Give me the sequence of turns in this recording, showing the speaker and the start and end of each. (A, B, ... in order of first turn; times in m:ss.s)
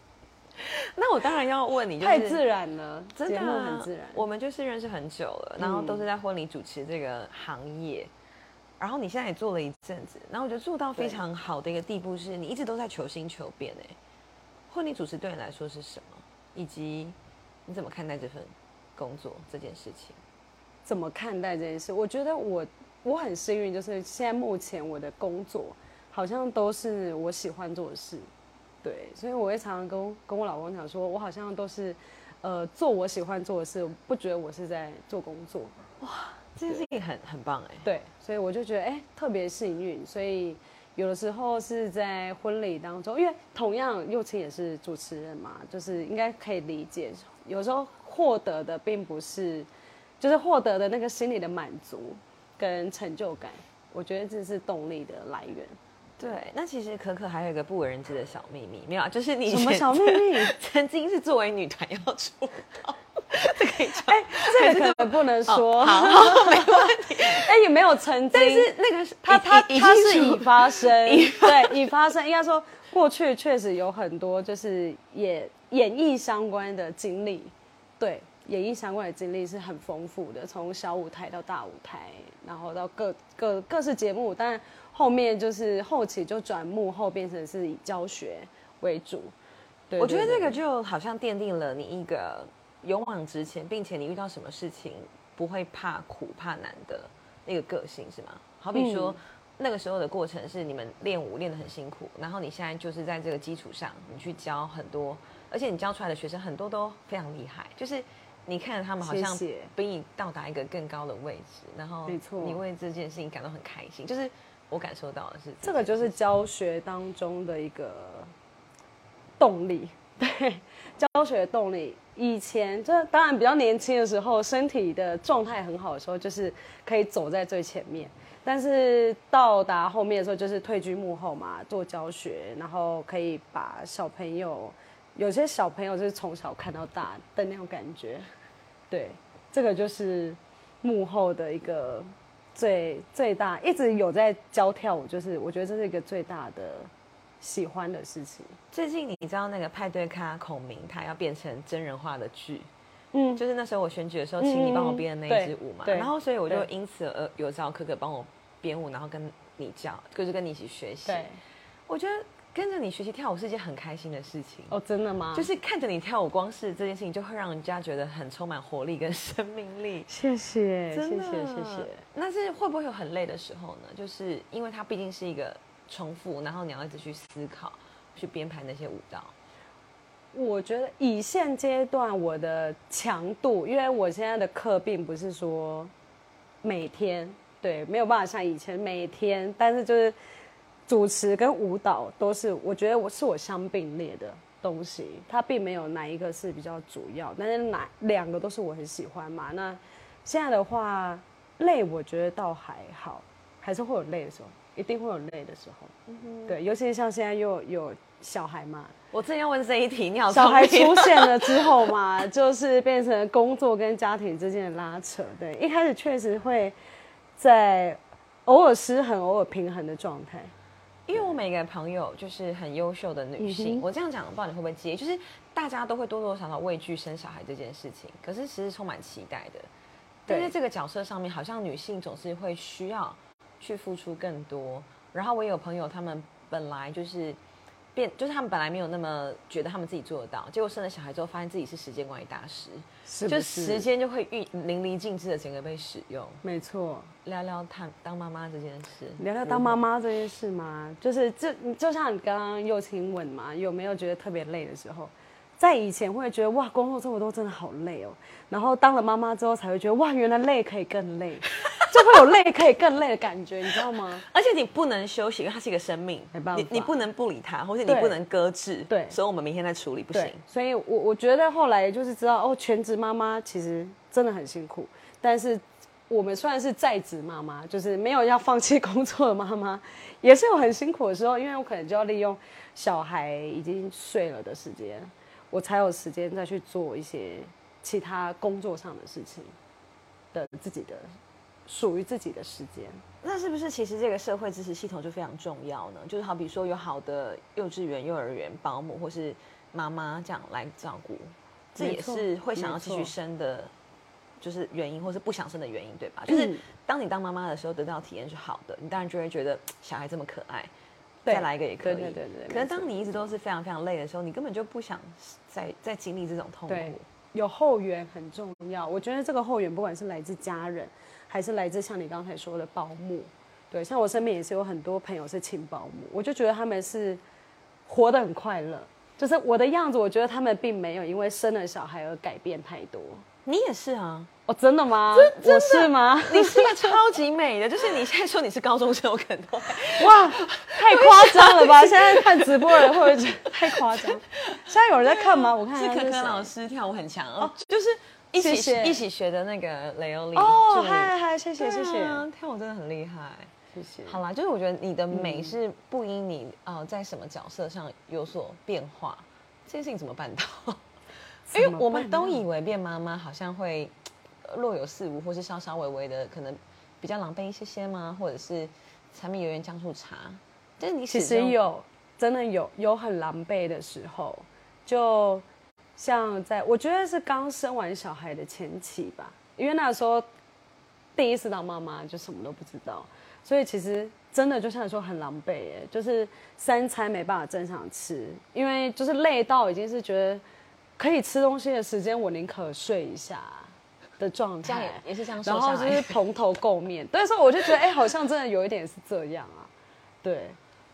0:00.6-0:02.4 A
0:02.0-0:04.3 B
0:03.2-0:08.1 A
0:05.6-0:06.1 B
0:08.8-0:14.0 A
0:11.0-0:11.2 B
0:14.7-0:20.2 A
0:20.8-0:28.3 B
0:28.8-0:35.8 B
0:36.0-0:37.9 A
0:37.8-0:49.7 B
0:50.2-0:55.8 B
0:56.2-1:07.5 A
0:59.5-1:00.5 B
1:03.9-1:08.7 B
1:08.3-1:11.9 A
1:09.2-1:29.4 B
1:29.9-1:30.6 B
1:30.0-1:56.2 A
1:38.7-1:39.2 B
1:49.0-1:49.7 B
1:52.1-1:52.6 B
1:55.6-1:58.3 B
1:59.4-2:18.3 B
2:18.9-2:28.6 B
2:28.7-2:32.7 A
2:33.1-2:33.4 B
2:33.4-2:41.3 A
2:34.4-2:36.7 B
2:41.1-2:41.4 B
2:41.9-2:44.7 A
2:44.7-2:45.5 B
2:45.3-2:50.1 A
2:50.1-2:52.0 B
2:50.9-2:59.3 A
3:00.3-3:05.9 B
3:06.6-3:10.2 B
3:10.9-3:25.9 B
3:26.1-3:26.6 A
3:26.5-3:28.9 B
3:29.1-3:31.7 A
3:30.3-3:36.8 B
3:37.4-3:40.5 B
3:41.1-3:49.7 A
3:43.4-3:43.9 B
3:50.3-3:50.6 B
3:50.3-3:57.4 A
3:58.0-4:06.4 A
4:03.1-4:03.9 B
4:06.4-4:07.1 B
4:07.2-4:09.8 A
4:09.2-4:24.2 B
4:24.3-4:30.4 A
4:26.3-4:27.0 B
4:27.9-4:28.2 B
4:28.9-4:29.2 B
4:30.1-4:49.6 B
4:50.3-4:51.1 B
4:51.7-4:53.0 B
4:53.2-5:03.7 A
5:01.8-5:03.1 B
5:04.4-5:10.7 A
5:06.3-5:06.6 B
5:11.2-5:13.3 B
5:11.3-5:17.1 A
5:16.7-5:27.2 B
5:27.9-5:33.2 B
5:33.5-5:34.3 A
5:34.5-5:37.0 B
5:35.1-5:53.5 A
5:40.0-5:46.5 B
5:48.4-5:49.0 B
5:50.4-5:52.2 B
5:53.7-5:54.2 B
5:54.1-6:00.8 A
5:55.1-5:55.6 B
6:01.5-6:02.4 B
6:01.5-6:11.6 A
6:11.1-6:15.5 B
6:16.0-6:20.3 B
6:21.2-6:30.4 B
6:31.0-6:39.7 B
6:34.6-6:36.2 A
6:40.2-6:40.6 B